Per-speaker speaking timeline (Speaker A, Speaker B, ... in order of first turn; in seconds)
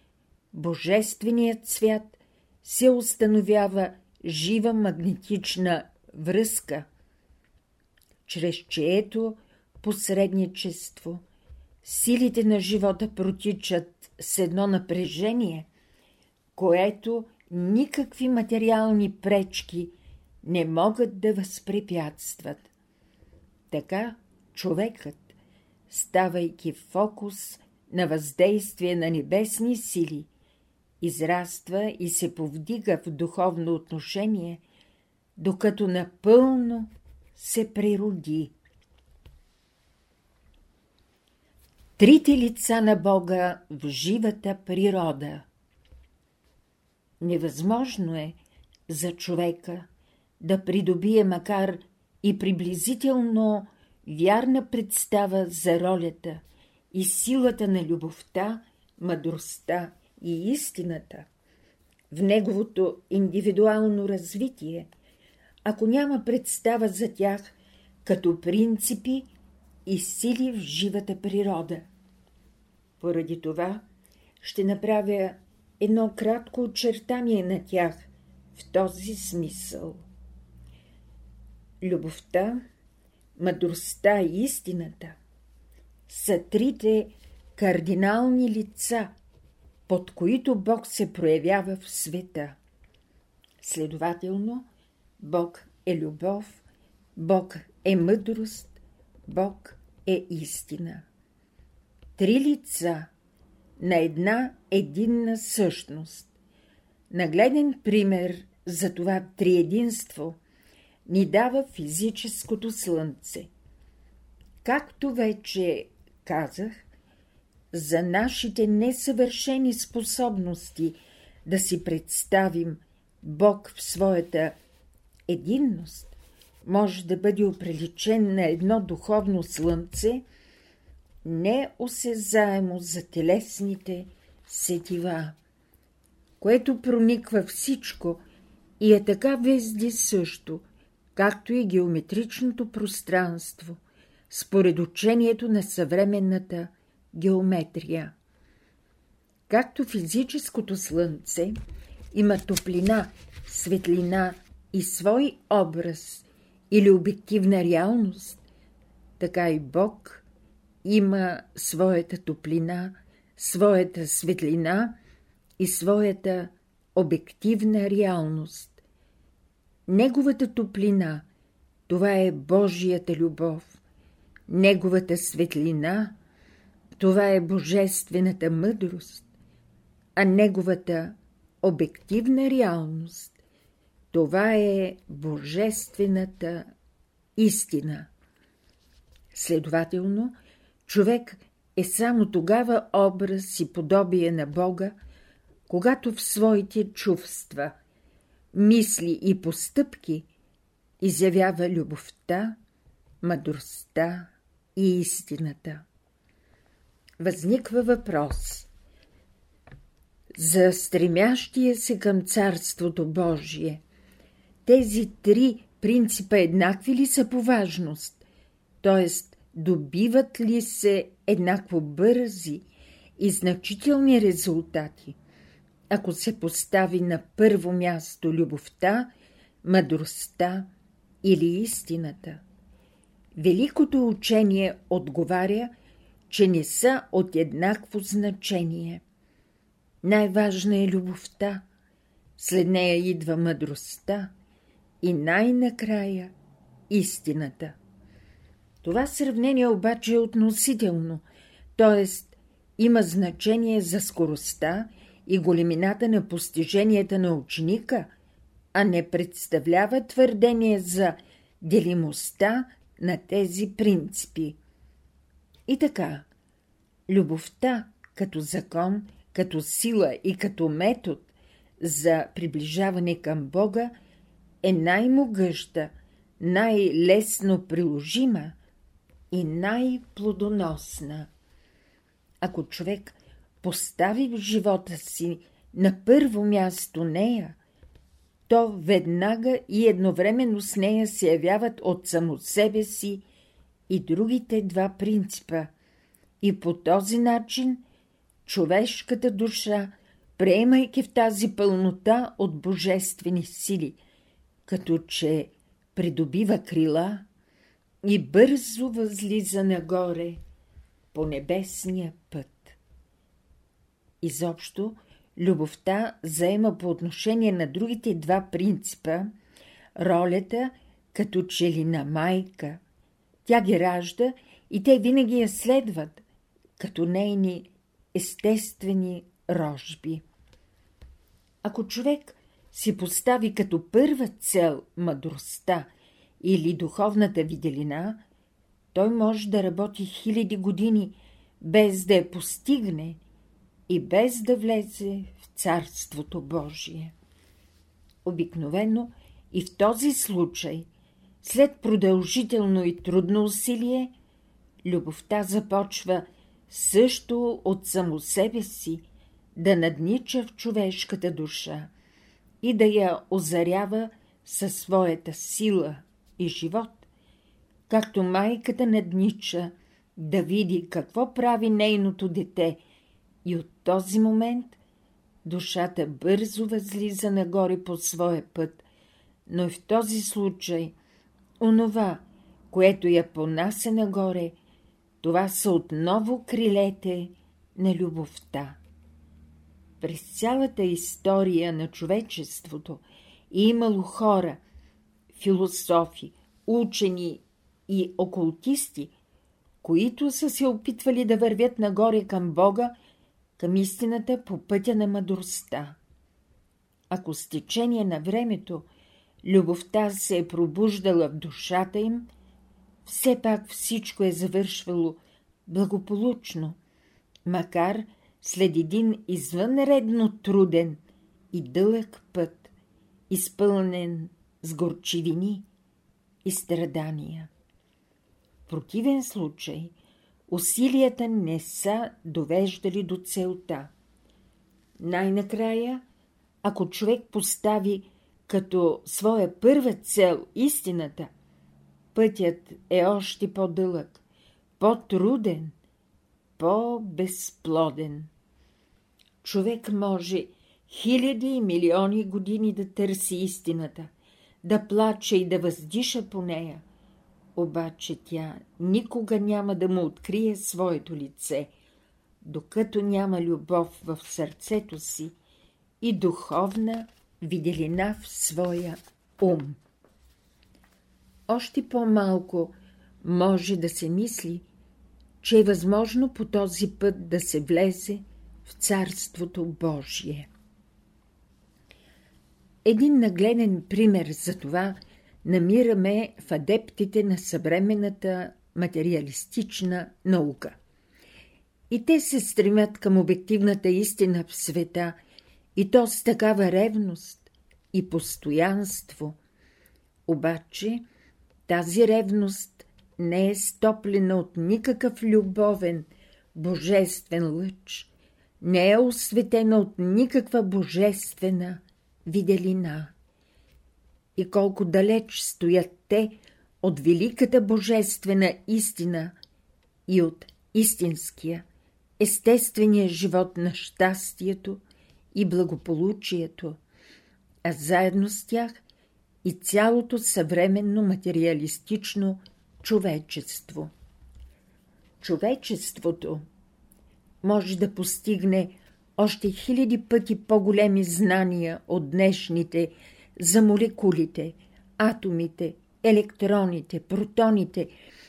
Speaker A: 0.5-6.9, 8.2-11.2, 11.8-15.7, 16.6-22.7, 23.7-25.4, 25.9-30.3, 31.0-34.6, 35.4-38.5, 42.0-45.5, 47.2-48.4, 48.9-49.9, 50.4-56.4, 56.9-61.3, 62.1-64.9, 65.6-67.5, 68.0-69.3, 69.9-71.9, 73.0-73.8, 74.4-80.0, 81.8-82.6, 83.4-85.2, 86.1-89.1, 89.9-92.6, 93.6-94.7, 95.2-96.6, 97.2-101.0, 102.2-103.1, 103.8-106.3, 107.1-110.4, 111.1-113.5, 114.6-116.8, 117.7-124.5, 125.3-130.2, 131.2-135.4, 136.4-138.2, 138.8-148.1, 149.5-151.5, 152.1-158.4, 159.2-160.2, 160.8-164.9, 165.6-168.8, 169.9-171.2, 171.9-173.8, 174.5-176.1, 177.0-179.2, 180.2-183.4, 184.1-186.7, 187.4-188.1, 189.3-190.3, 190.9-194.9, 195.7-197.7, 198.5-200.3, 201.0-202.6, 203.2-205.8, 207.2-208.7, 210.3-213.8, 214.7-218.2, 218.8-222.6, 223.2-225.2, 225.9-229.1, 229.6-230.7, 231.2-232.4, 233.4-235.7, 236.3-239.0, 240.0-241.6, 242.4-244.3, 245.0-246.3, 246.9-247.8, 248.8-251.2, 251.7-258.1, 258.7-264.6, 265.7-266.2, 267.1-273.9, 274.6-278.6, 279.3-281.3, 282.4-287.6, 288.5-293.2, 293.9-295.7, 296.4-297.8, 298.4-304.0, 304.6-307.2, 308.0-310.4, 311.1-312.8, 314.2-319.3, 319.9-322.8, 323.4-326.2, 326.8-330.2, 331.6-335.9, 336.4-338.2, 338.9-343.2, 343.9-347.1, 348.2-350.9, 351.4-354.1, 354.8-359.0, 359.6-361.9, 362.6-367.1, 367.9-372.8, 373.4-374.8, 375.4-378.9, 379.5-380.9, 381.6-384.6, 385.2-388.8, 390.0-394.6, 395.3-399.1, 399.8-402.9, 403.6-406.0, 407.1-408.9, 409.4-412.3, 413.0-416.8, 417.4-421.0, 421.5-422.7, 423.3-425.6, 426.4-427.5, 428.7-429.9, 430.5-433.9, 435.0-436.0, 436.6-441.3, 442.1-444.2, 444.8-445.7, 446.6-448.3, 449.4-454.1, 454.6-456.8, 457.6-461.7, 462.4-465.3, 466.0-469.8, 471.5-474.6, 475.4-480.5, 482.9-490.8, 491.9-495.1, 495.8-499.4, 500.3-501.0, 501.7-508.1, 508.6-513.1, 514.4-519.4, 520.1-521.6, 522.2-524.8, 525.3-526.8, 527.6-528.8, 529.4-533.9, 535.2-536.4, 537.4-547.9